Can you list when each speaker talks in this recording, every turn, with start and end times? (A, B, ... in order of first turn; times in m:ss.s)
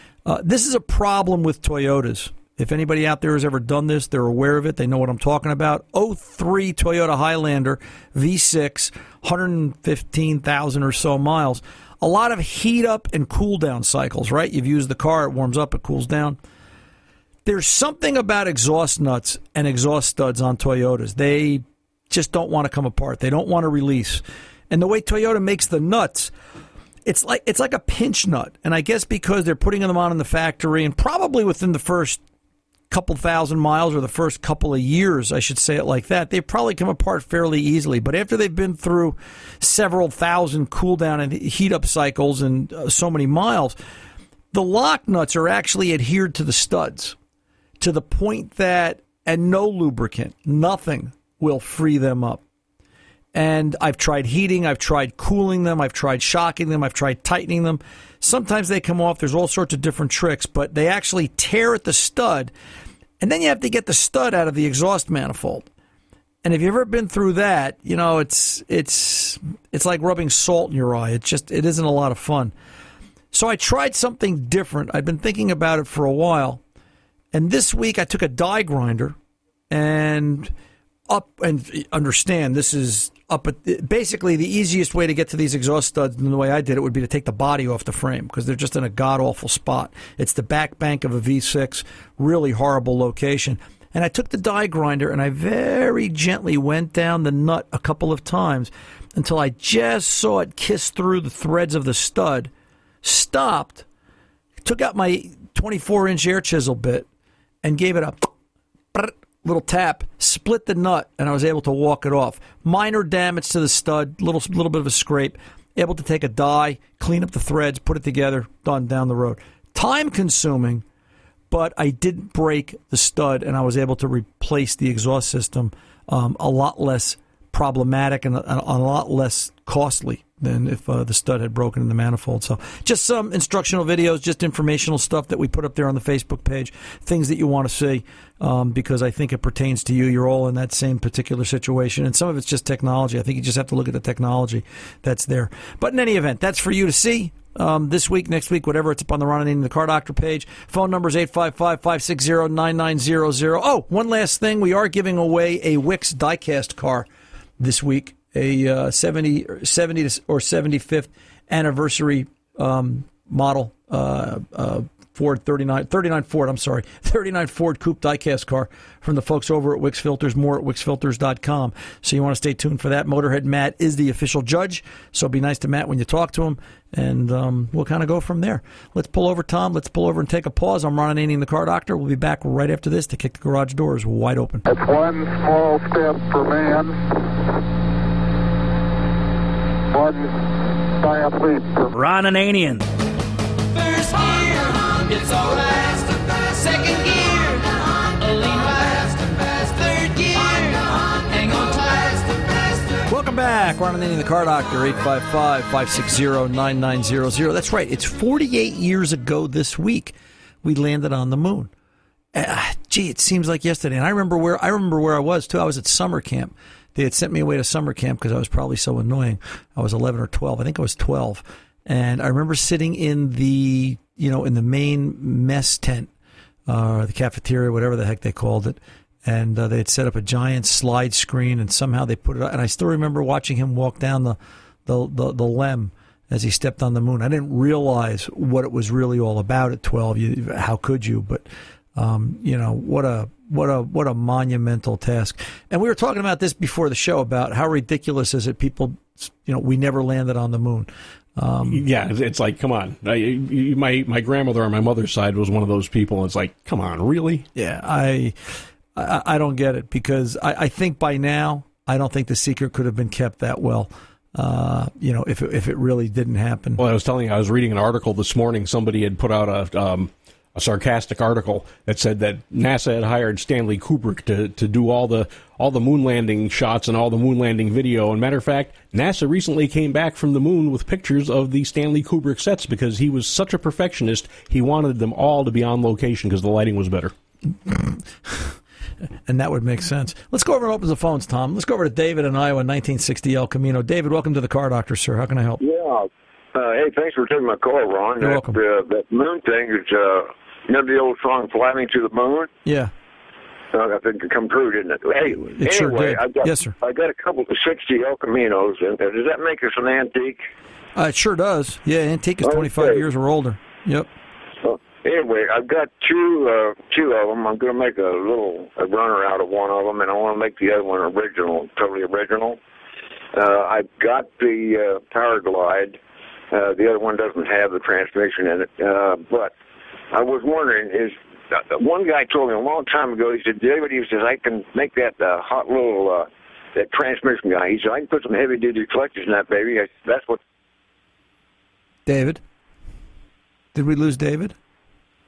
0:00.2-0:16.4 A
0:17.4-0:26.3 A
0:27.1-0:32.2 A
0:32.9-0:43.8 A
0:44.5-0:47.2 A
0:47.8-0:52.4 A
0:53.3-1:02.5 A
1:03.2-1:05.7 A
1:06.4-1:12.5 A
1:13.3-1:16.6 A
1:17.3-1:19.2 A
1:19.7-1:20.5 A
1:21.1-1:42.5 A
1:43.0-1:43.9 A
1:44.6-1:47.1 A
1:47.6-1:48.3 A
1:48.9-2:00.8 A
2:01.5-2:37.1 A
2:37.6-3:04.6 A
3:04.7-3:07.0 B
3:09.9-3:11.9 B
3:11.9-3:12.9 C
3:14.0-3:17.7 C
3:18.2-3:20.9 C
3:21.4-3:21.8 C
3:23.1-3:31.7 A
3:32.3-3:46.1 A
3:46.7-4:01.4 A
4:02.0-4:11.8 A
4:11.7-4:17.5 D
4:17.6-4:26.8 A
4:26.8-4:47.1 D
4:47.7-4:48.6 A
4:49.3-4:55.6 A
4:55.6-5:02.5 E
4:58.2-4:58.6 A
5:02.6-5:02.9 A
5:03.7-5:10.4 E
5:05.4-5:06.7 A
5:11.0-5:14.1 A
5:12.4-5:13.0 E
5:14.6-5:22.6 E
5:23.3-5:26.0 E
5:26.5-5:29.5 E
5:30.1-5:40.4 E
5:42.1-5:42.4 A
5:43.7-5:44.6 A